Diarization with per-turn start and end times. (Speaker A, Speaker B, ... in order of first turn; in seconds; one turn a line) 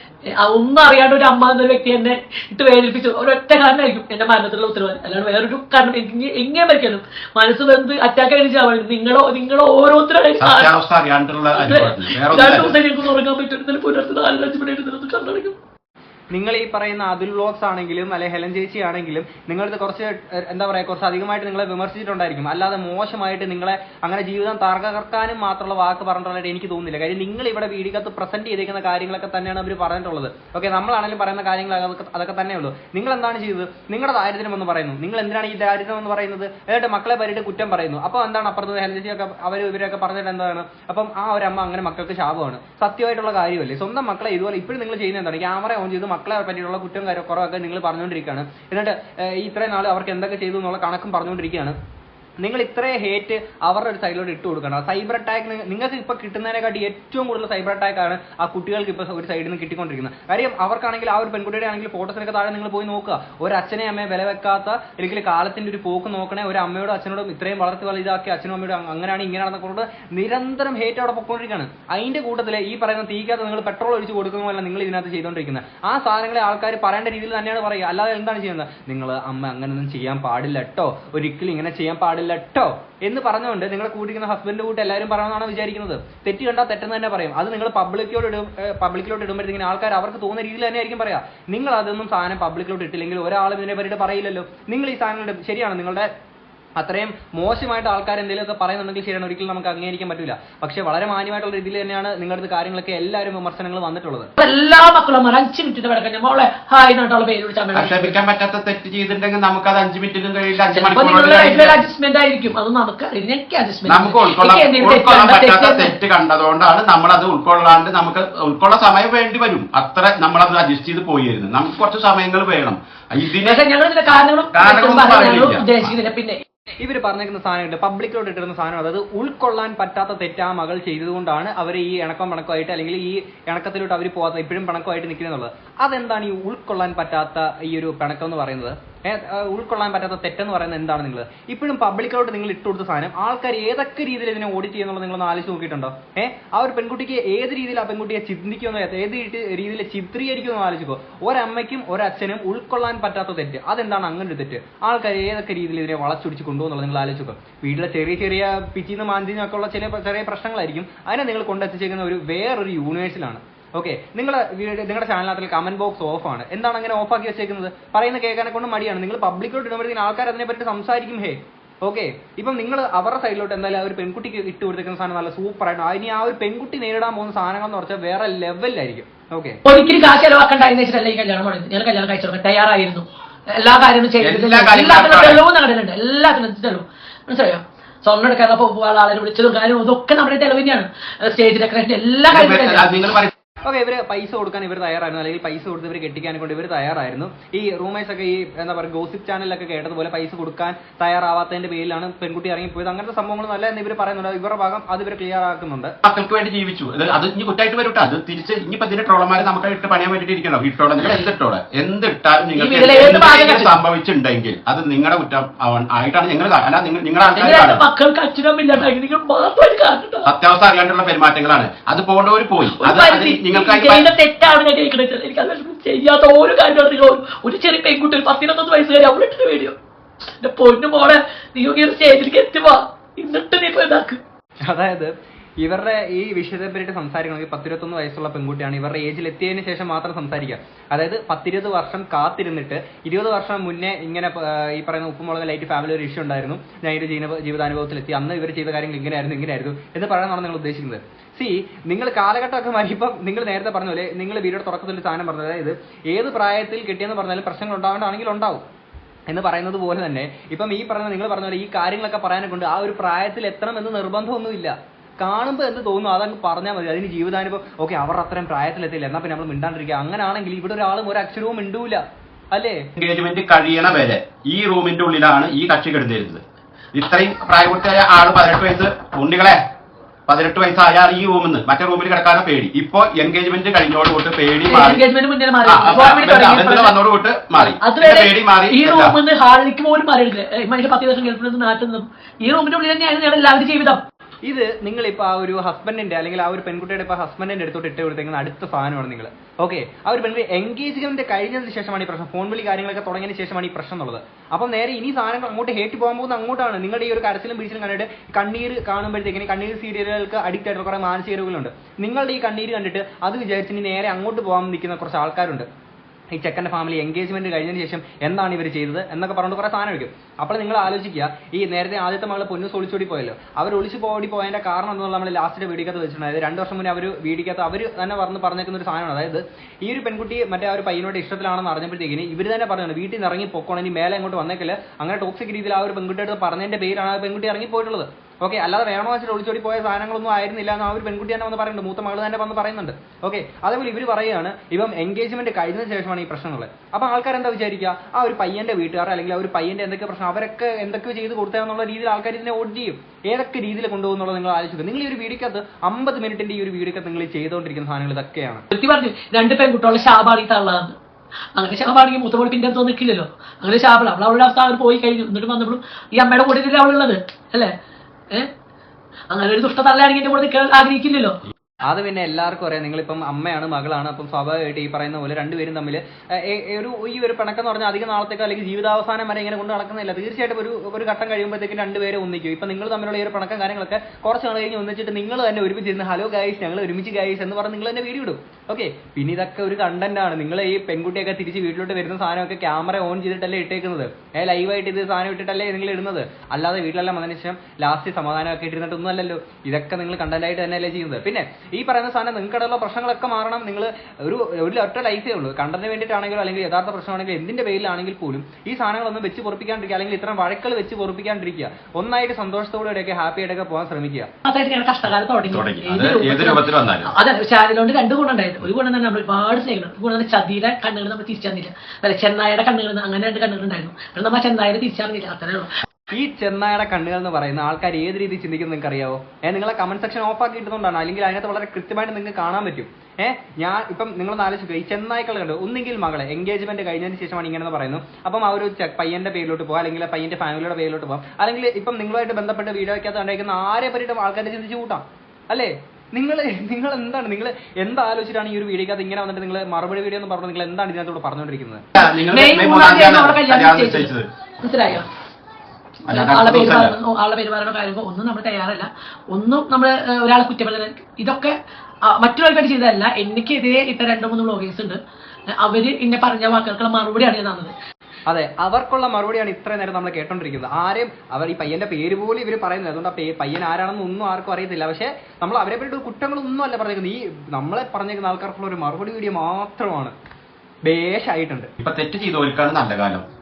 Speaker A: 0.4-10.8
Speaker B: 10.4-12.8
Speaker A: 11.6-15.6
Speaker C: 16.3-51.7
Speaker C: 52.4-96.1
Speaker C: 96.8-104.3
Speaker A: 104.4-108.2
Speaker B: 107.7-111.8
Speaker A: 110.7-115.9
Speaker B: 113.9-123.6
Speaker A: 123.4-126.4
Speaker B: 124.5-125.9
Speaker C: 126.8-179.6
Speaker A: 179.6-192.9
Speaker B: 184.2-185.4
Speaker B: 192.3-193.3
Speaker C: 193.6-205.9
Speaker B: 206.0-217.8
Speaker A: 212.6-213.8
Speaker A: 217.3-220.3
Speaker B: 220.2-224.1
Speaker A: 222.7-229.8
Speaker A: 230.4-234.2
Speaker C: 234.6-258.6
Speaker C: 259.3-272.9
Speaker B: 273.0-276.4
Speaker B: 276.9-279.6
Speaker B: 280.3-285.0
Speaker A: 284.7-286.9
Speaker B: 285.6-289.2
Speaker A: 287.6-294.0
Speaker C: 294.4-315.7
Speaker C: 316.3-358.6
Speaker A: 358.7-360.9
Speaker A: 361.5-367.7
Speaker A: 369.3-371.4
Speaker C: 371.9-414.3
Speaker A: 414.4-425.7
Speaker B: 415.5-417.1
Speaker C: 426.1-451.8
Speaker B: 451.9-454.3
Speaker A: 452.0-455.1
Speaker B: 456.1-456.9
Speaker A: 456.1-465.0
Speaker A: 465.5-467.7
Speaker C: 468.3-480.1
Speaker C: 480.8-481.7
Speaker B: 481.8-483.2